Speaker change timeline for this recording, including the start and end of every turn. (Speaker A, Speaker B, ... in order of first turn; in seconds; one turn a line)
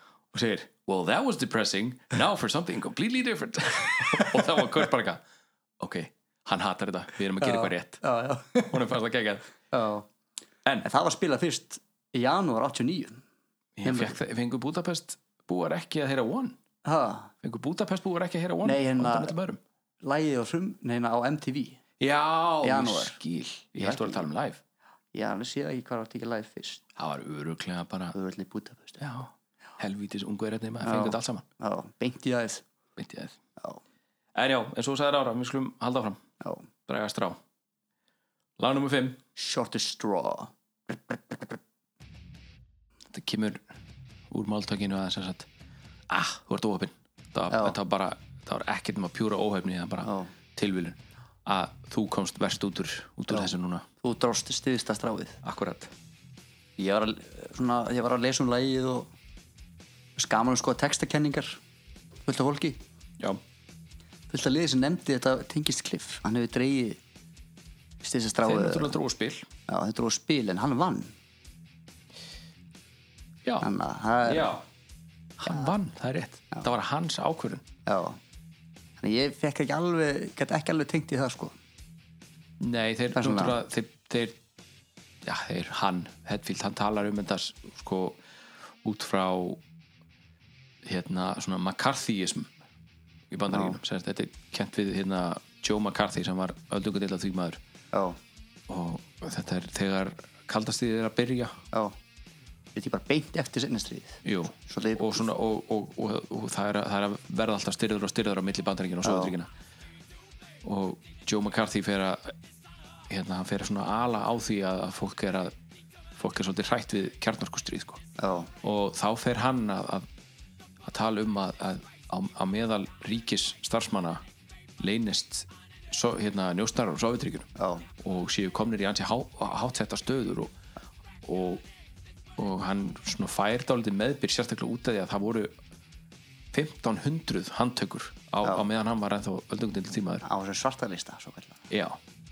Speaker A: 0.3-5.2
Speaker A: 5.8-8.0
Speaker B: 7.4-8.8
Speaker A: 8.7-9.5
Speaker B: 9.7-10.1
Speaker B: 10.8-13.2
Speaker A: 13.8-16.6
Speaker B: 13.8-14.2
Speaker B: 16.8-17.3
Speaker A: 17.4-19.6
Speaker B: 18.6-19.3
Speaker B: 20.0-21.8
Speaker A: 22.0-24.6
Speaker B: 22.6-23.2
Speaker B: 23.8-24.3
Speaker B: 25.1-26.8
Speaker A: 27.0-28.1
Speaker B: 28.1-29.0
Speaker A: 29.0-31.4
Speaker B: 30.8-32.6
Speaker A: 33.0-33.4
Speaker A: 34.3-36.2
Speaker A: 36.9-37.4
Speaker A: 38.6-39.2
Speaker B: 39.4-41.6
Speaker A: 43.1-43.6
Speaker A: 44.3-45.5
Speaker A: 46.1-53.9
Speaker B: 47.5-47.8
Speaker B: 50.0-50.3
Speaker B: 53.3-55.4
Speaker A: 55.4-55.9
Speaker B: 56.8-59.1
Speaker B: 60.1-61.6
Speaker B: 62.2-62.8
Speaker B: 64.3-67.0
Speaker B: 68.0-69.0
Speaker A: 68.4-69.5
Speaker B: 69.7-71.1
Speaker B: 73.6-74.5
Speaker A: 74.2-74.6
Speaker A: 75.4-77.6
Speaker B: 77.8-78.2
Speaker B: 79.0-81.6
Speaker A: 82.6-84.4
Speaker B: 83.1-83.6
Speaker A: 85.2-88.2
Speaker A: 88.8-89.6
Speaker A: 90.8-92.5
Speaker A: 93.3-97.6
Speaker B: 93.5-93.8
Speaker B: 97.9-98.2
Speaker A: 98.7-101.6
Speaker B: 102.7-105.3
Speaker A: 104.2-109.5
Speaker B: 109.0-109.3
Speaker A: 110.6-112.3
Speaker A: 113.1-115.5
Speaker A: 116.2-118.0
Speaker B: 118.2-118.5
Speaker A: 118.6-120.0
Speaker A: 120.8-124.2
Speaker A: 124.8-127.5
Speaker B: 127.6-127.8
Speaker A: 128.0-130.5
Speaker A: 131.2-131.6
Speaker A: 132.4-135.5
Speaker A: 136.5-140.2
Speaker B: 140.2-141.6
Speaker A: 141.7-142.0